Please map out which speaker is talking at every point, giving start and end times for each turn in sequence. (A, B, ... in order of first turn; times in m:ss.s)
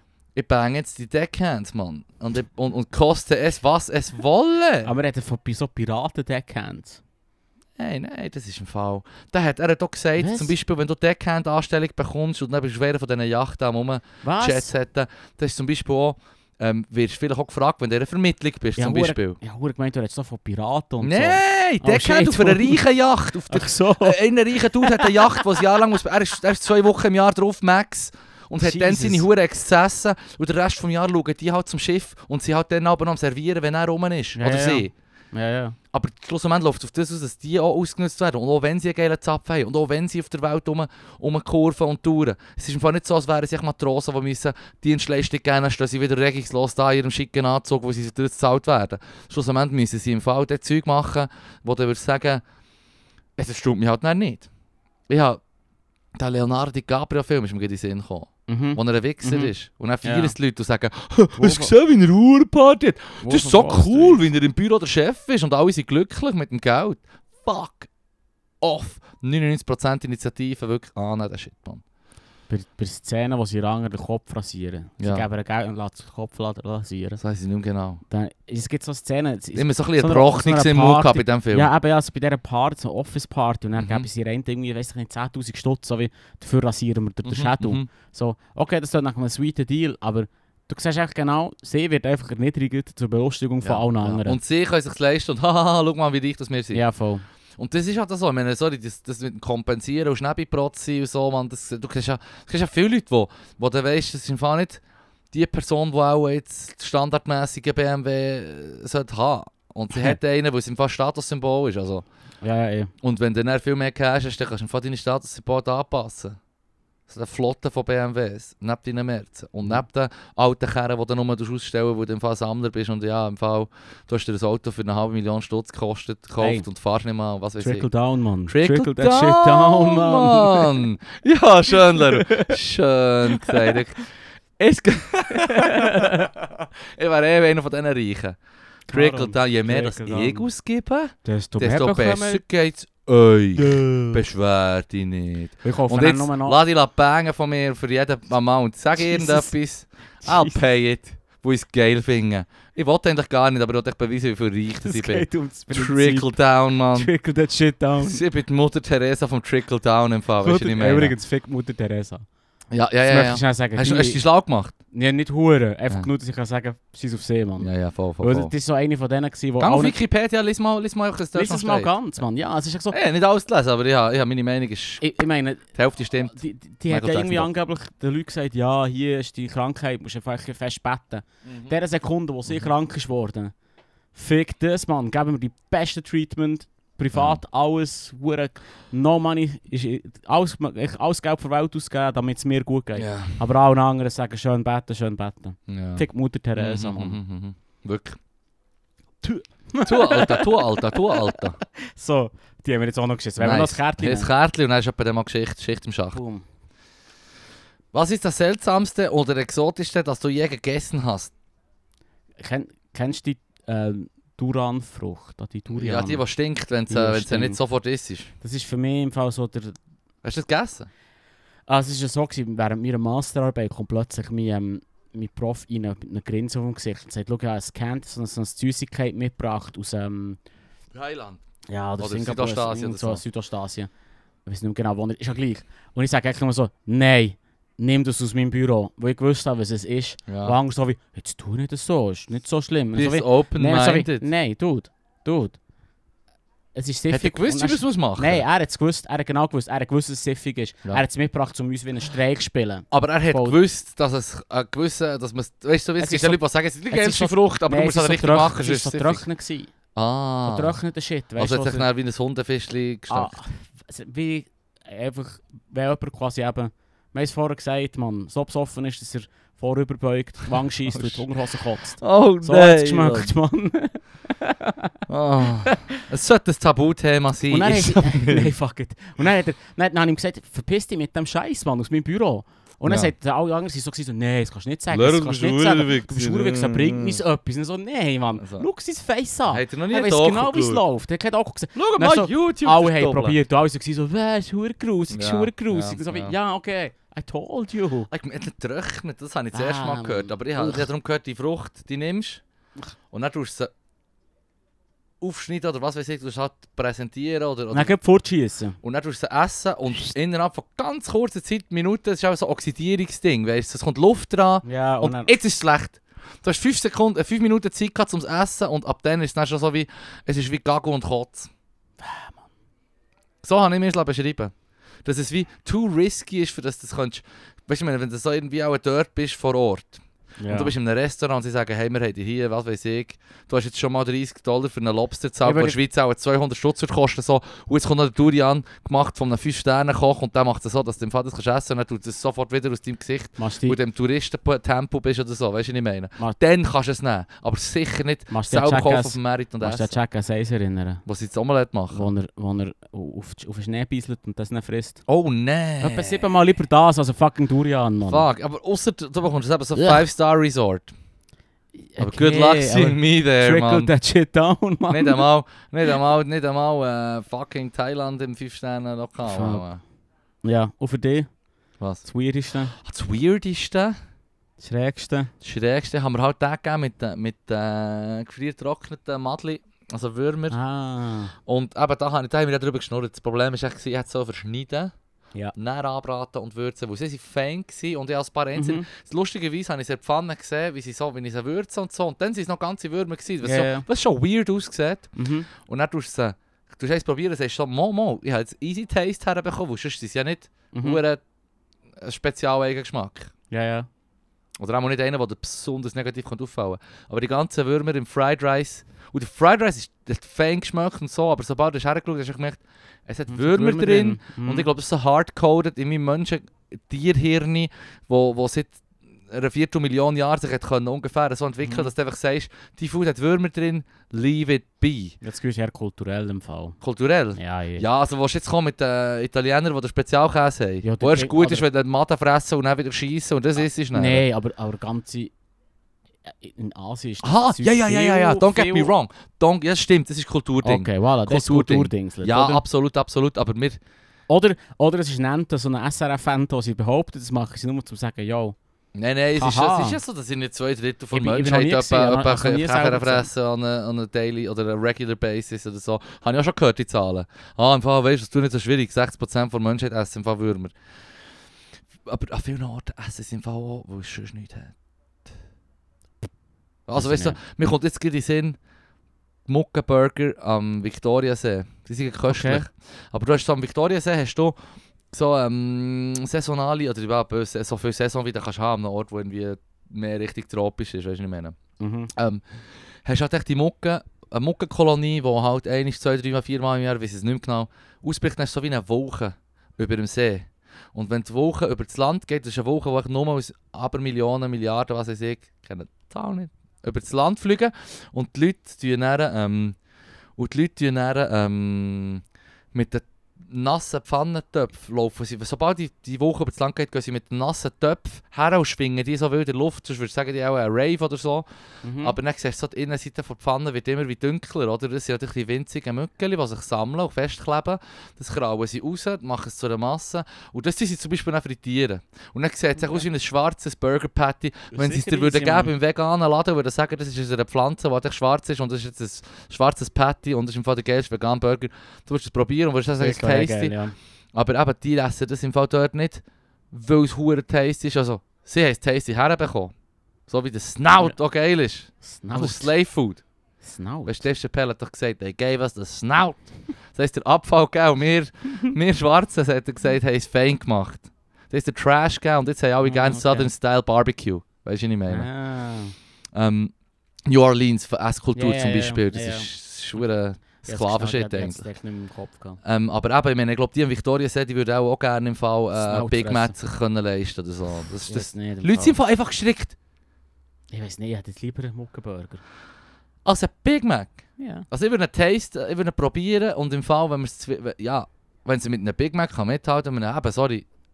0:00.4-0:04.9 A
0:04.8-0:07.0 B
0:07.8-0:19.4 A
0:10.2-0:10.5 B
0:14.2-0:14.7 B
0:18.8-0:22.8 B
0:21.0-0:34.9 A
0:23.5-0:24.2 B
0:24.8-0:25.6 B
0:28.6-0:29.2 B
0:34.4-0:35.8 B
0:35.9-0:52.4 A
0:53.4-0:54.5 A
0:55.1-0:55.4 A
0:56.2-1:07.9 A
0:58.5-0:59.5 B
1:00.0-1:00.3 B
1:01.4-1:01.7 B
1:03.2-1:04.3 B
1:08.6-1:11.8 A
1:12.5-1:17.2 B
1:15.0-1:15.2 A
1:17.2-1:18.0 A
1:18.1-1:34.4 B
1:19.6-1:21.7 A
1:23.8-1:24.1 A
1:27.2-1:27.9 A
1:33.6-1:36.8 A
1:36.7-1:37.2 B
1:37.6-1:44.8 A
1:45.3-1:52.0 A
1:52.4-1:52.9 B
1:53.0-1:56.4 A
1:57.1-2:07.9 A
2:06.4-2:06.7 B
2:07.6-2:10.8 B
2:08.5-2:14.0 A
2:11.8-2:12.6 B
2:13.3-2:13.8 B
2:14.6-2:18.4 A
2:15.3-2:16.3 B
2:18.9-2:20.5 B
2:18.9-2:37.1 A
2:21.2-2:22.4 B
2:23.6-2:24.2 B
2:25.6-2:26.6 B
2:29.0-2:29.5 B
2:30.2-2:30.6 B
2:34.8-2:36.3 B
2:36.9-2:38.2 B
2:38.0-2:41.2 A
2:40.4-2:42.3 B
2:42.7-2:44.8 A
2:43.0-2:44.2 B
2:44.9-2:50.0 B
2:47.6-2:48.5 A
2:49.6-2:51.9 A
2:51.4-2:53.0 B
2:52.9-2:55.0 A
2:55.0-2:55.7 B
2:55.7-2:56.4 A
2:56.2-3:03.5 B
2:56.9-2:57.5 A
3:01.4-3:01.7 A
3:04.1-3:17.2 B
3:07.1-3:07.4 A
3:13.0-3:13.4 A
3:15.7-3:18.2 A
3:19.2-3:24.3 B
3:19.8-3:21.6 A
3:23.4-3:26.2 A
3:26.1-3:26.4 B
3:27.9-3:31.3 A
3:32.4-3:36.2 B
3:35.7-3:38.3 A
3:36.9-3:37.6 B
3:38.4-3:39.8 B
3:40.2-3:40.9 A
3:41.7-3:50.4 B
3:50.9-3:51.4 A
3:51.7-3:53.9 B
3:52.0-3:53.2 A
3:54.5-4:05.6 B
4:00.3-4:00.6 A
4:03.0-4:04.3 A
4:06.8-4:13.6 B
4:07.1-4:08.4 A
4:12.9-4:19.2 A
4:16.0-4:19.7 B
4:20.0-4:20.8 A
4:20.4-4:21.9 B
4:21.4-4:23.4 A
4:23.1-4:35.0 B
4:30.9-4:31.3 A
4:32.0-4:33.3 A
4:35.1-4:38.5 A
4:35.7-4:36.0 B
4:37.5-4:58.1 B
4:42.9-4:43.1 A
4:44.9-4:47.2 A
4:48.4-4:48.7 A
4:49.5-4:50.8 A
4:51.8-4:53.4 A
4:55.1-4:56.4 A
4:58.1-5:02.4 A
4:59.5-5:00.9 B
5:03.1-5:03.7 A
5:05.2-5:07.9 A
5:07.7-5:08.8 B
5:08.8-5:21.5 A
5:14.6-5:15.3 B
5:22.0-5:22.4 B
5:23.4-5:24.5 A
5:25.0-5:50.0 A
5:30.4-5:30.7 B
5:35.4-5:35.8 B
5:43.4-5:43.8 B
5:48.3-5:51.0 B
5:51.1-5:52.1 A
5:51.9-5:55.0 B
5:55.1-5:56.3 A
5:55.8-5:58.3 B
5:58.1-6:00.9 A
5:59.8-6:00.0 B
6:01.8-6:05.3 B
6:02.0-6:03.9 A
6:04.9-6:09.8 A
6:09.3-6:09.7 B
6:10.4-6:11.3 B
6:12.0-6:12.8 B
6:12.8-6:13.9 A
6:14.6-6:15.3 B
6:15.4-6:20.6 A
6:20.5-6:21.3 B
6:21.5-6:24.9 A
6:25.6-6:41.2 A
6:28.6-6:28.9 B
6:33.4-6:33.9 B
6:35.2-6:35.5 B
6:40.7-6:41.0 B
6:42.0-6:43.3 A
6:43.5-6:43.9 B
6:44.6-6:58.8 A
6:53.3-6:54.7 B
6:59.3-7:05.2 A
7:01.6-7:01.9 B
7:05.2-7:06.8 B
7:06.8-7:14.2 A
7:07.4-7:07.9 B
7:10.8-7:11.6 B
7:13.9-7:15.3 B
7:16.3-7:18.9 B
7:17.2-7:23.8 A
7:20.6-7:22.6 B
7:24.3-7:28.6 B
7:29.0-7:40.7 A
7:29.4-7:30.0 B
7:31.1-7:33.3 B
7:42.1-7:44.7 A
7:46.9-7:48.6 A
7:47.0-7:47.4 B
7:49.5-7:54.6 A
7:52.3-7:52.6 B
7:55.1-8:01.6 A
8:01.8-8:02.1 B
8:02.1-8:02.4 A
8:03.0-8:19.8 A
8:20.4-8:22.2 A
8:22.7-8:31.5 A
8:31.8-8:32.2 B
8:32.0-8:53.8 A
8:44.7-8:45.7 B
8:53.0-8:54.0 B
8:54.3-8:59.7 A
9:00.3-9:03.2 A
9:02.0-9:02.7 B
9:03.6-9:04.3 B
9:04.1-9:15.3 A
9:12.8-9:13.5 B
9:15.1-9:16.0 B
9:16.3-9:16.7 A
9:17.3-9:21.6 A
9:18.4-9:19.5 B
9:20.6-9:22.6 B
9:22.6-9:29.8 A
9:25.8-9:26.6 B
9:28.1-9:29.0 B
9:30.7-9:32.4 B
9:33.2-9:40.7 A
9:34.4-9:34.7 B